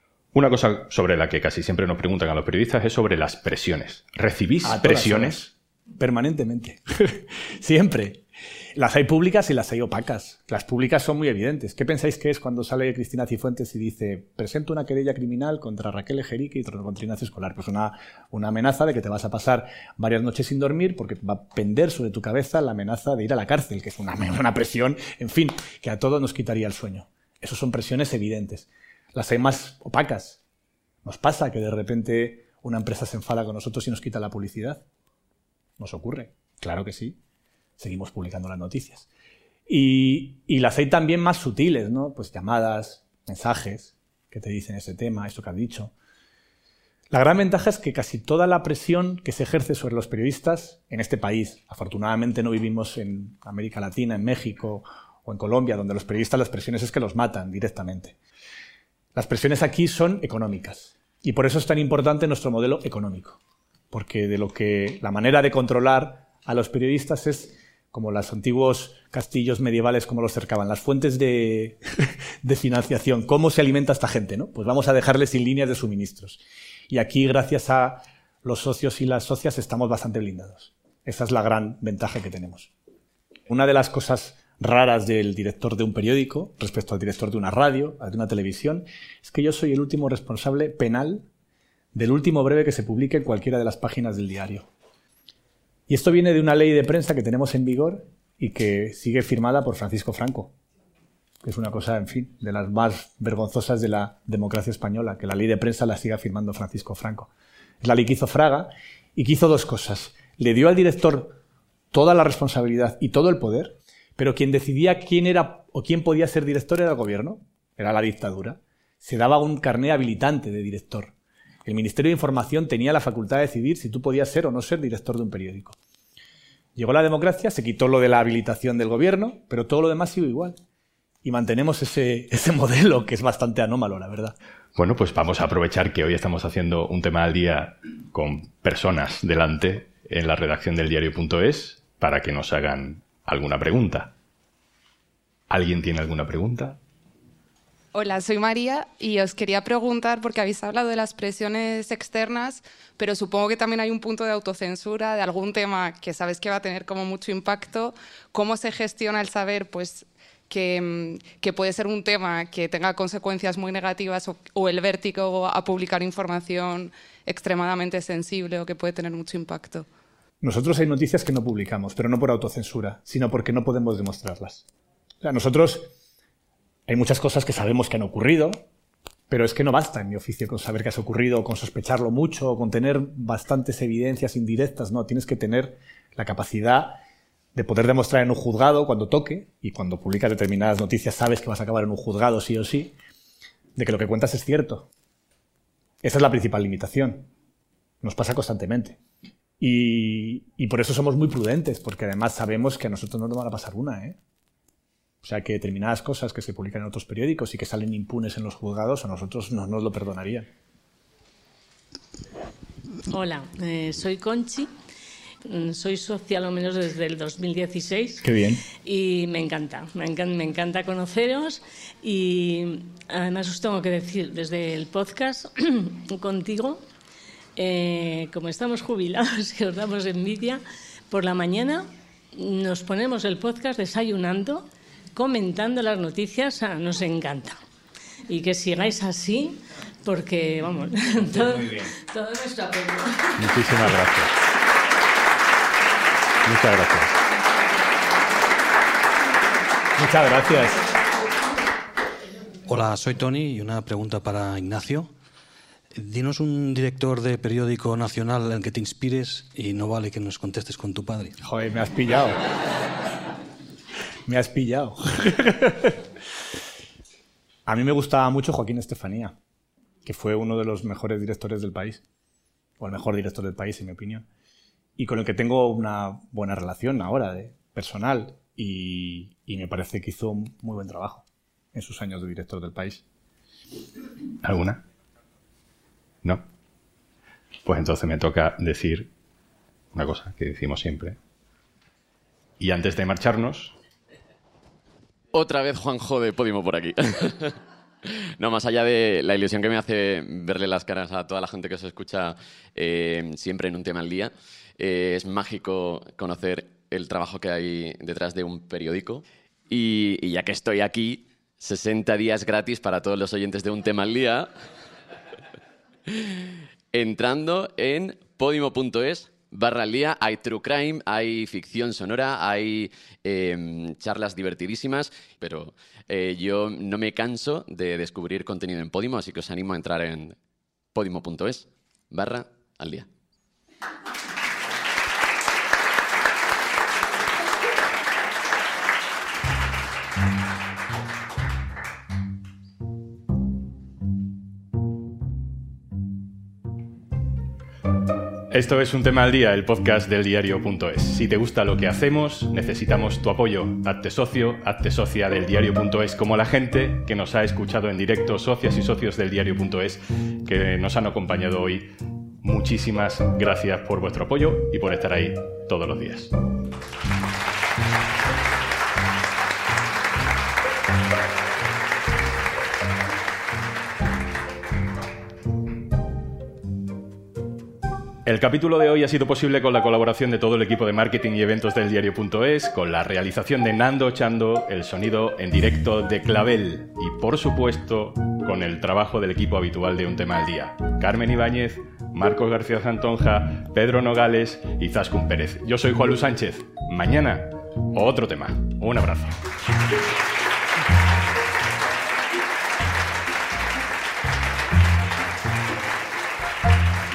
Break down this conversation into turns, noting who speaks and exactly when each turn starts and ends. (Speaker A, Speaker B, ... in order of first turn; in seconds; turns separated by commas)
Speaker A: 0.3-5.5, Speaker B: 4.6-8.2, Speaker B: 8.8-30.4, Speaker B: 31.1-34.8, Speaker B: 35.8-37.2, Speaker B: 37.8-39.1, Speaker B: 39.7-45.9, Speaker B: 47.1-58.2, Speaker B: 59.1-63.4, Speaker B: 63.9-71.8, Speaker B: 72.4-82.7, Speaker B: 83.5-91.3, Speaker B: 91.9-94.7, Speaker B: 95.9-100.5, Speaker B: 101.4-107.3, Speaker B: 107.8-111.4, Speaker B: 111.9-121.1, Speaker B: 121.7-125.8, Speaker B: 126.8-130.6, Speaker B: 131.2-134.4, Speaker A: 134.8-144.1, Speaker A: 145.5-146.8, Speaker C: 147.9-169.9, Speaker B: 170.4-174.7, Speaker B: 175.2-175.9, Speaker B: 176.9-178.6, Speaker B: 179.3-187.0, Speaker B: 187.6-192.9, Speaker B: 193.8-194.9, Speaker B: 196.0-197.3, Speaker B: 198.0-199.0, Speaker B: 199.6-204.2, Speaker B: 205.2-210.5, Speaker D: 213.1-214.7, Speaker D: 215.4-218.3, Speaker B: 218.2-218.6, Speaker D: 218.8-226.8, Speaker D: 227.6-237.6, Speaker D: 238.3-243.8, Speaker A: 243.4-244.3, Speaker A: 246.4-247.1, Speaker B: 250.0-250.8, Speaker E: 252.7-255.1, Speaker E: 256.0-261.3, Speaker B: 261.4-262.4, Speaker B: 264.3-266.0, Speaker B: 267.7-269.4, Speaker B: 270.1-272.0, Speaker B: 272.8-274.2, Speaker B: 275.0-283.0, Speaker A: 284.4-284.8, Speaker A: 287.7-289.1, Speaker A: 289.9-291.2, Speaker A: 292.6-293.7, Speaker F: 295.4-297.4, Speaker F: 298.4-314.5, Speaker F: 316.9-330.3, Speaker F: 331.0-333.1, Speaker A: 348.5-361.9, Speaker A: 362.4-366.3, Speaker A: 378.2-399.4